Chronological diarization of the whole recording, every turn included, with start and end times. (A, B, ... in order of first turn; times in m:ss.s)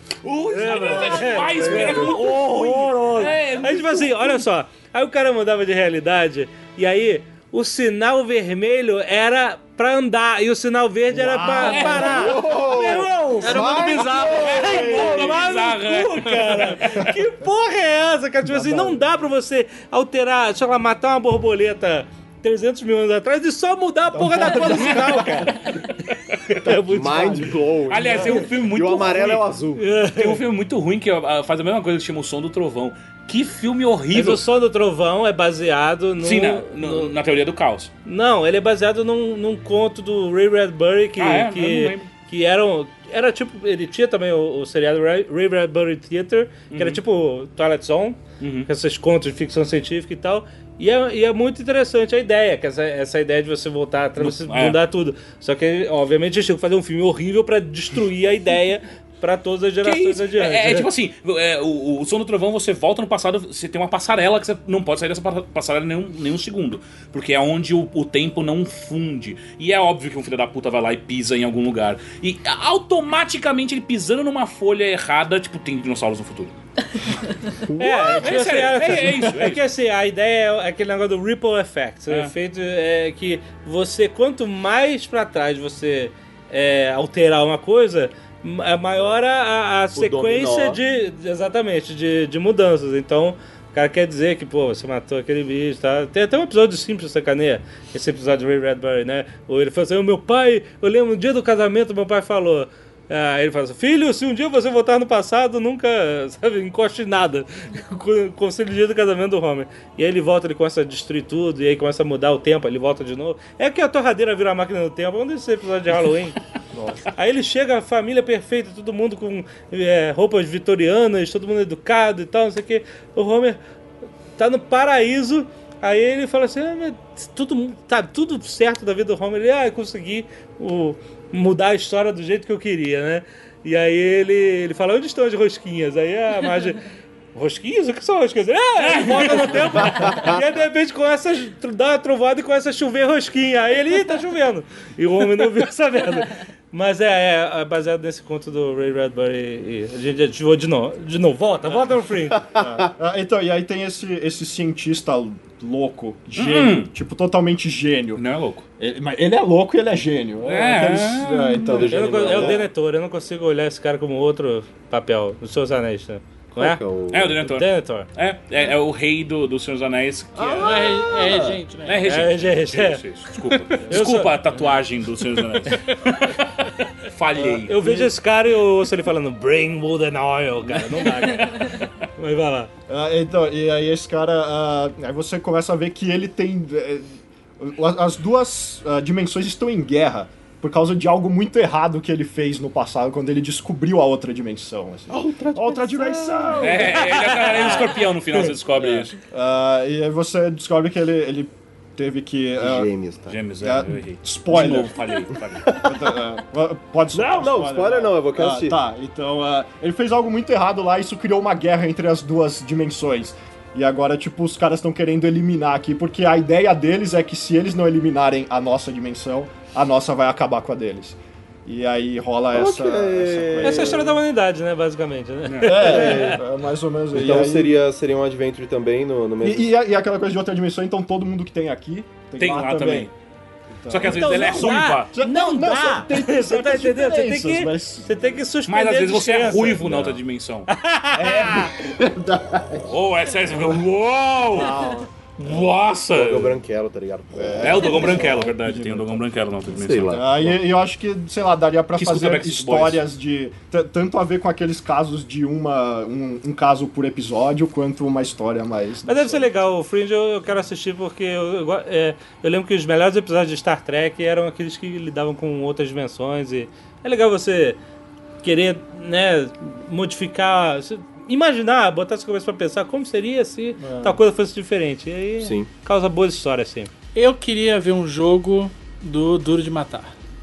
0:00.2-0:04.4 A
0:00.5-0:13.8 B
0:11.1-0:12.6 C
0:11.6-0:12.3 A
0:11.9-0:14.5 D
0:13.4-0:15.0 E
0:13.4-0:15.4 C
0:14.2-0:17.0 A
0:14.6-0:25.8 B
0:18.4-0:19.0 C
0:24.1-0:25.6 C
0:24.6-0:26.5 A
0:26.5-0:27.6 B
0:26.6-0:27.5 C
0:26.9-0:29.8 D
0:27.9-0:29.4 A
0:28.0-0:28.3 C
0:29.8-0:30.4 B
0:30.1-0:34.4 A
0:34.1-0:37.1 B
0:36.2-0:37.9 A
0:38.0-1:00.9 B
0:41.2-0:42.1 A
0:46.7-0:47.0 A
0:48.4-0:48.7 A
0:54.2-0:54.8 A
0:59.8-1:16.5 A
1:17.7-1:18.2 D
1:17.8-1:56.4 B
1:18.2-1:19.6 A
1:29.9-1:30.8 D
1:56.7-1:57.1 C
1:57.1-2:03.6 B
2:04.4-2:16.8 B
2:17.3-2:32.5 B
2:18.8-2:19.9 A
2:19.9-2:20.4 D
2:32.5-2:32.9 D
2:32.5-2:38.2 C
2:36.3-2:36.9 A
2:38.1-2:38.6 A
2:38.8-2:42.6 C
2:40.4-2:41.9 A
2:41.7-2:42.7 D
2:41.9-2:46.8 B
2:46.5-2:47.4 D
2:47.1-2:50.9 A
2:47.4-2:48.1 B
2:50.4-2:51.6 D
2:50.6-2:52.1 E
2:51.8-2:57.8 A
2:52.0-2:53.0 B
2:53.9-2:54.4 B
2:57.4-2:58.1 C
2:57.6-3:02.7 B
3:00.7-3:01.9 A
3:02.9-3:17.9 C
3:15.1-3:17.0 D
3:16.6-3:19.1 A
3:17.0-3:17.5 B
3:18.8-3:22.9 C
3:22.6-3:23.4 D
3:23.3-3:25.7 A
3:23.6-3:24.9 C
3:25.6-3:26.2 D
3:25.8-3:44.2 C
3:27.1-3:28.8 D
3:42.5-3:44.1 D
3:43.6-3:46.4 B
3:45.4-3:46.0 A
3:45.6-3:47.7 C
3:45.8-3:46.4 D
3:47.1-3:49.7 D
3:49.4-3:53.1 C
3:52.4-3:53.1 A
3:53.7-3:58.2 C
3:53.9-3:55.1 A
3:54.0-4:00.1 B
3:58.7-4:00.7 A
4:00.7-4:01.7 B
4:01.1-4:02.9 C
4:02.7-4:04.8 A
4:04.5-4:05.1 C
4:05.4-4:06.6 A
4:06.1-4:08.4 D
4:07.4-4:09.2 C
4:07.6-4:10.2 A
4:09.7-4:10.6 D
4:10.1-4:19.5 C
4:12.0-4:13.0 A
4:19.1-4:27.8 B
4:28.4-4:36.9 B
4:33.8-4:34.2 C
4:35.4-4:35.7 D
4:37.1-4:40.1 E